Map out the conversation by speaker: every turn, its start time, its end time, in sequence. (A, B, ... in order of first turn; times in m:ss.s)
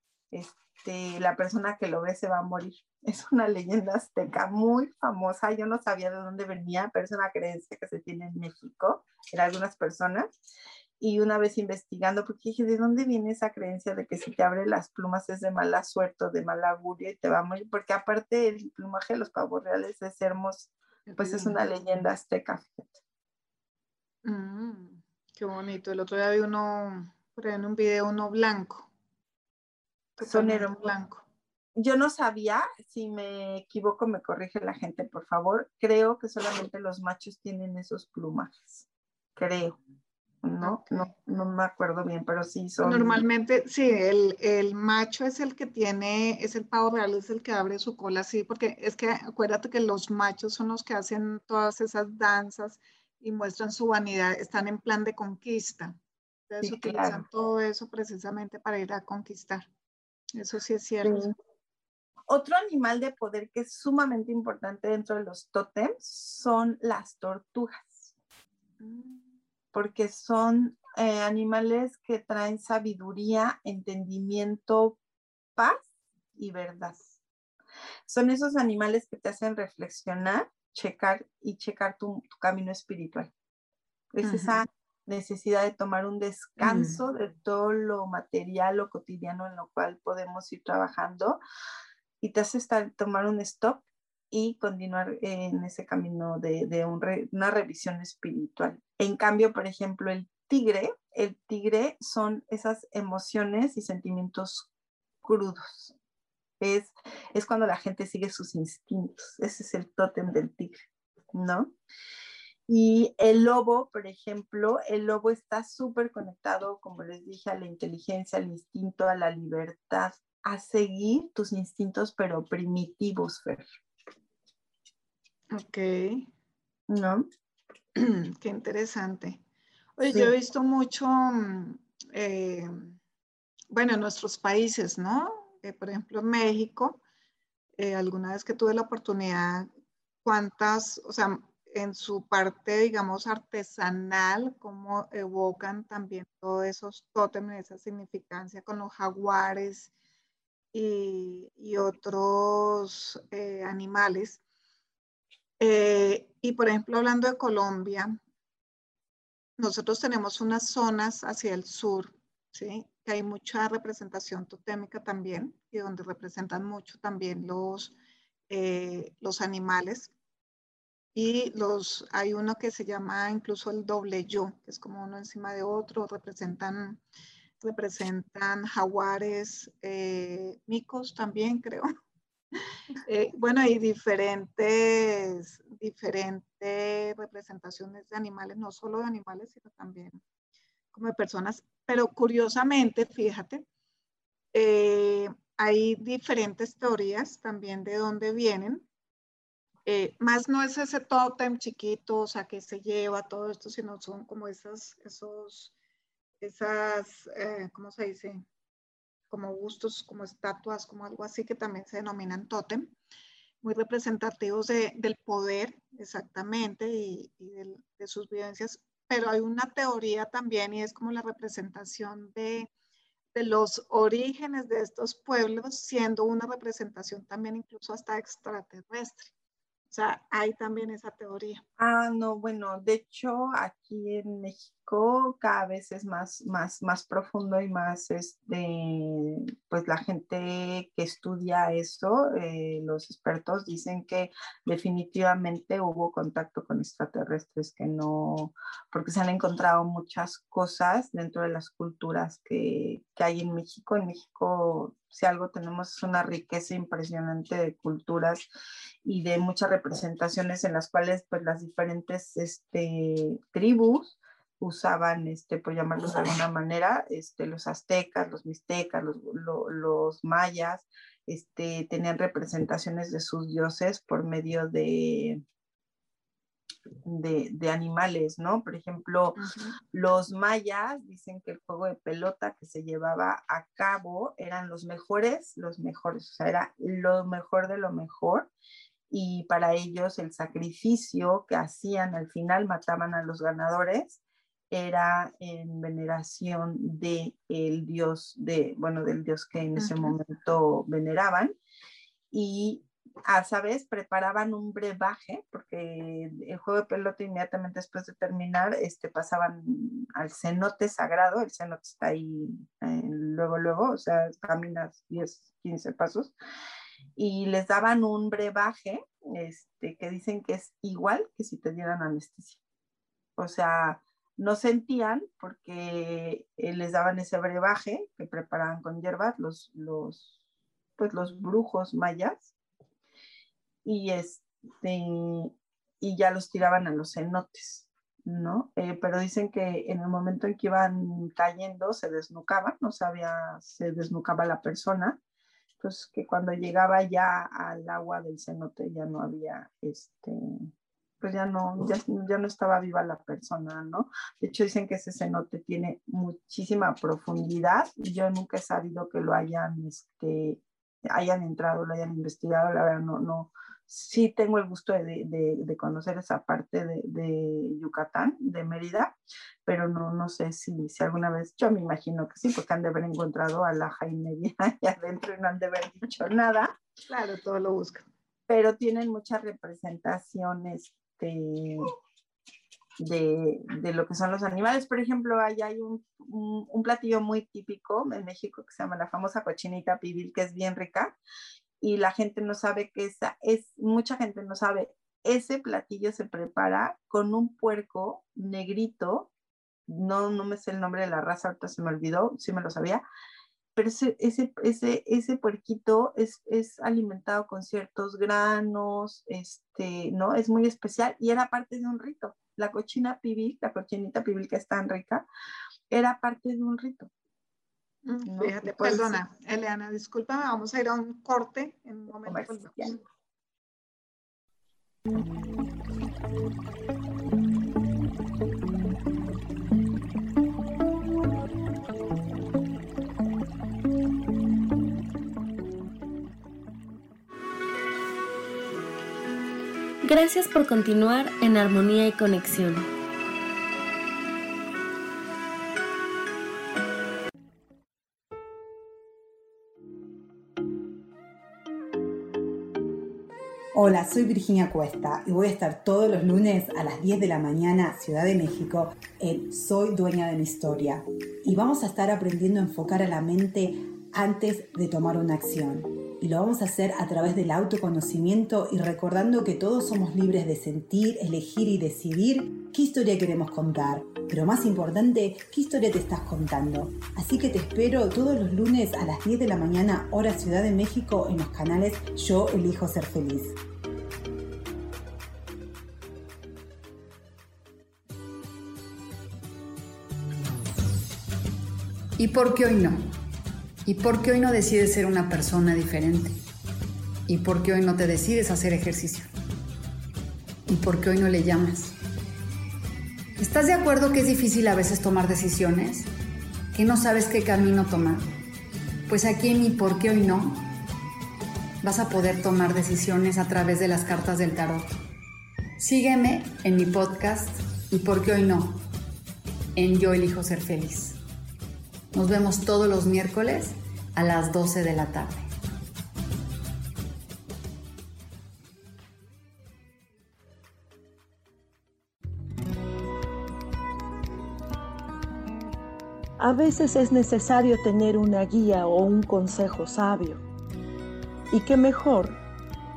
0:00.3-0:10.3 A
0:11.0-0:23.0 A
0:21.1-0:21.6 B
0:24.2-0:28.9 B
0:30.2-0:31.2 B
0:30.2-0:30.9 A
0:31.8-0:38.8 A
0:39.4-0:39.8 A
0:40.4-0:43.2 A
0:40.6-0:41.1 B
0:42.8-0:56.0 B
0:56.5-0:59.6 B
0:56.6-0:57.2 A
1:00.3-1:01.3 B
1:01.0-1:01.3 A
1:02.3-1:08.1 A
1:08.8-1:09.2 B
1:09.7-1:15.0 A
1:15.6-1:17.1 A
1:18.1-1:23.3 A
1:24.1-1:31.4 A
1:24.2-1:24.6 B
1:26.6-1:27.0 B
1:32.2-1:44.7 A
1:45.2-1:45.9 A
1:46.6-1:50.8 A
1:51.3-1:51.7 A
1:52.7-2:03.6 A
2:05.5-2:06.3 B
2:06.9-2:07.3 A
2:08.0-2:09.4 B
2:10.0-2:13.0 B
2:10.0-2:10.3 A
2:13.7-2:17.0 B
2:17.8-2:19.7 B
2:20.2-2:29.9 B
2:30.7-2:34.4 B
2:35.6-2:38.2 B
2:39.6-2:47.9 B
2:48.5-2:50.1 B
2:51.1-2:57.0 B
2:57.6-3:01.9 B
3:03.0-3:10.2 B
3:10.9-3:13.6 B
3:14.5-3:18.8 B
3:19.8-3:25.7 B
3:26.4-3:28.5 B
3:29.3-3:32.9 B
3:33.6-3:42.7 B
3:43.3-3:49.3 B
3:49.9-3:51.6 B
3:51.8-4:18.4 A
4:19.0-4:35.4 A
4:37.0-4:39.4 A
4:39.4-4:39.8 B
4:39.9-4:48.5 A
4:49.1-5:01.5 A
4:59.8-5:00.1 B
5:02.3-5:16.3 A
5:17.2-5:22.6 A
5:23.4-5:30.3 A
5:31.0-5:32.5 A
5:33.8-5:45.2 A
5:45.8-5:50.5 A
5:51.2-6:09.1 A
6:09.6-6:16.8 A
6:17.1-6:18.0 B
6:18.5-6:21.9 A
6:23.0-6:31.2 A
6:31.8-6:39.3 A
6:39.9-6:43.0 A
6:43.8-6:55.2 A
6:55.9-6:57.1 A
6:58.0-7:03.0 B
6:58.2-6:59.2 A
7:02.2-7:03.0 A
7:20.0-7:22.9 C
7:33.7-8:03.6 D
8:12.2-8:13.1 E
8:13.8-8:16.4 E
8:17.3-8:19.3 E
8:20.7-8:21.9 E
8:23.4-8:26.1 E
8:26.7-8:28.3 E
8:29.1-8:30.7 E
8:31.8-8:34.9 E
8:35.8-8:38.8 E
8:39.8-8:41.2 E
8:42.1-8:45.5 E
8:56.4-9:00.4 F
9:01.5-9:02.4 F